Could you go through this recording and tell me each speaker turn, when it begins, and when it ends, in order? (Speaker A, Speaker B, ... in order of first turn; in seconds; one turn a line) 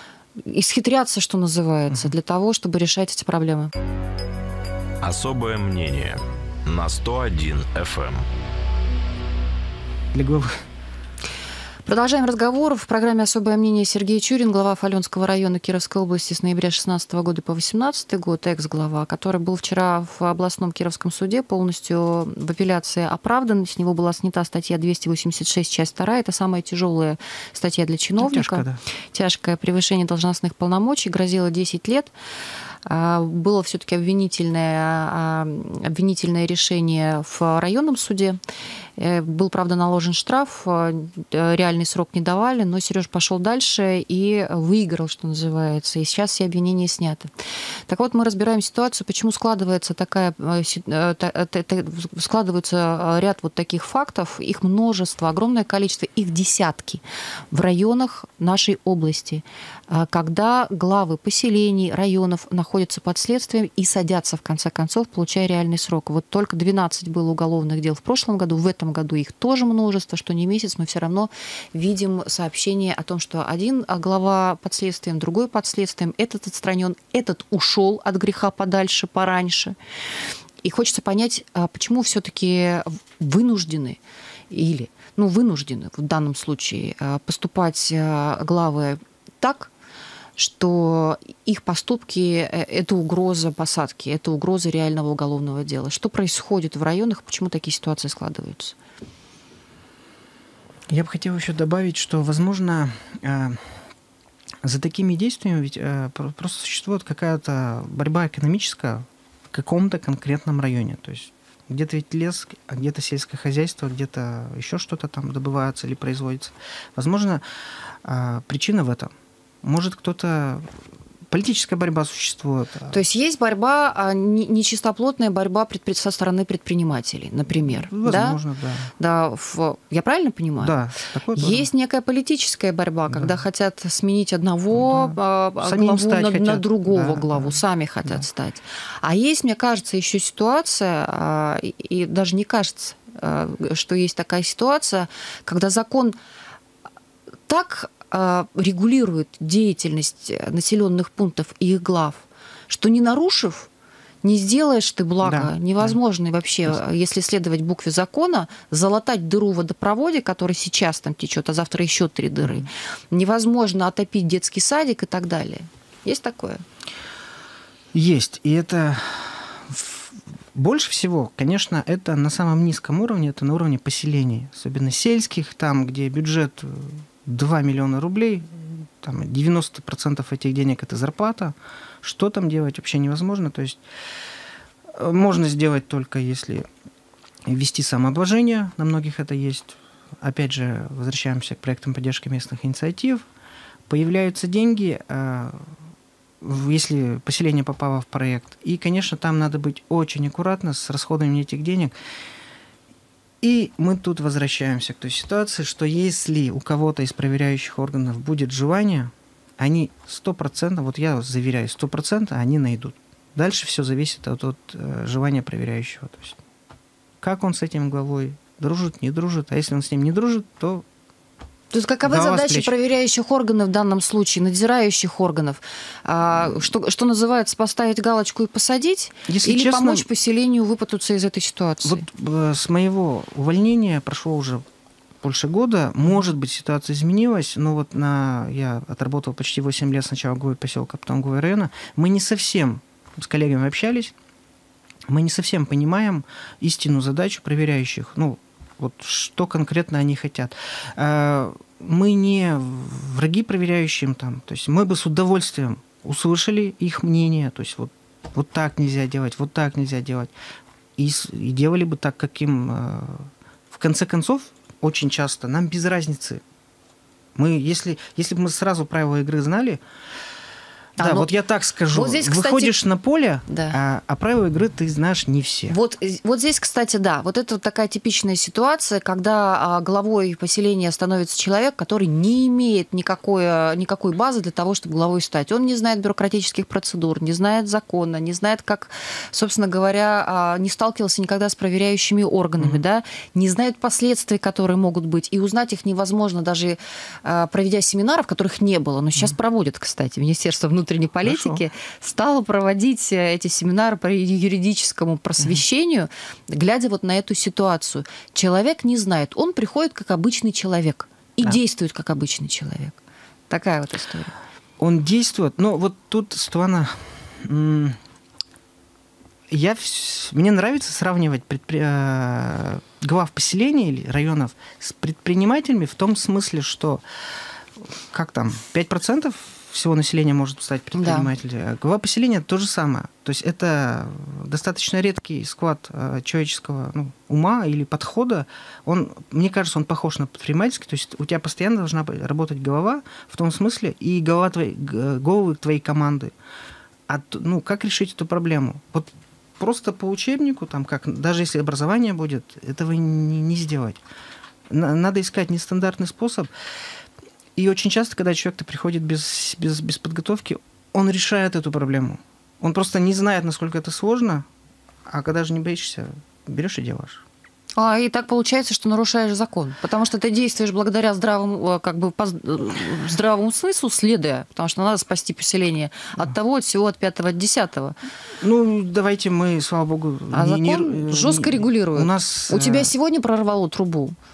Speaker A: 0.4-3.7
Speaker B: 5.0-8.2
Speaker C: 10.1-10.6
Speaker A: 11.9-32.1
Speaker C: 28.2-28.8
Speaker A: 32.9-38.4
Speaker A: 39.0-47.3
Speaker A: 47.9-79.8
Speaker A: 80.6-84.0
Speaker A: 84.5-89.7
Speaker A: 90.4-98.8
Speaker C: 100.9-103.8
Speaker C: 104.6-119.1
Speaker C: 119.6-120.7
Speaker C: 121.3-123.0
Speaker A: 122.9-128.4
Speaker C: 127.7-128.9
Speaker A: 129.0-130.7
Speaker C: 130.6-131.7
Speaker A: 131.3-146.2
Speaker C: 133.1-133.4
Speaker C: 134.7-138.2
Speaker A: 147.5-153.7
Speaker A: 154.2-166.7
Speaker C: 155.2-156.0
Speaker C: 167.9-183.8
Speaker C: 184.9-186.7
Speaker C: 187.5-193.2
Speaker C: 193.9-195.7
Speaker C: 196.4-201.9
Speaker C: 203.4-216.4
Speaker C: 217.2-220.8
Speaker A: 221.7-232.1
Speaker C: 222.0-222.7
Speaker C: 229.3-230.1
Speaker C: 231.8-234.7
Speaker C: 235.2-244.1
Speaker C: 245.1-260.3
Speaker C: 261.0-266.4
Speaker C: 267.4-269.8
Speaker A: 271.0-271.3
Speaker C: 271.0-275.8
Speaker A: 271.9-272.8
Speaker A: 273.5-273.8
Speaker A: 275.7-313.0
Speaker C: 301.2-301.6
Speaker A: 313.5-314.4
Speaker C: 314.8-318.0
Speaker C: 319.5-327.0
Speaker C: 328.1-346.3
Speaker A: 330.9-331.3
Speaker C: 347.1-354.0
Speaker C: 354.7-356.5
Speaker C: 357.6-364.5
Speaker C: 365.1-367.2
Speaker A: 367.8-378.0
Speaker C: 378.4-382.9
Speaker A: 380.3-384.2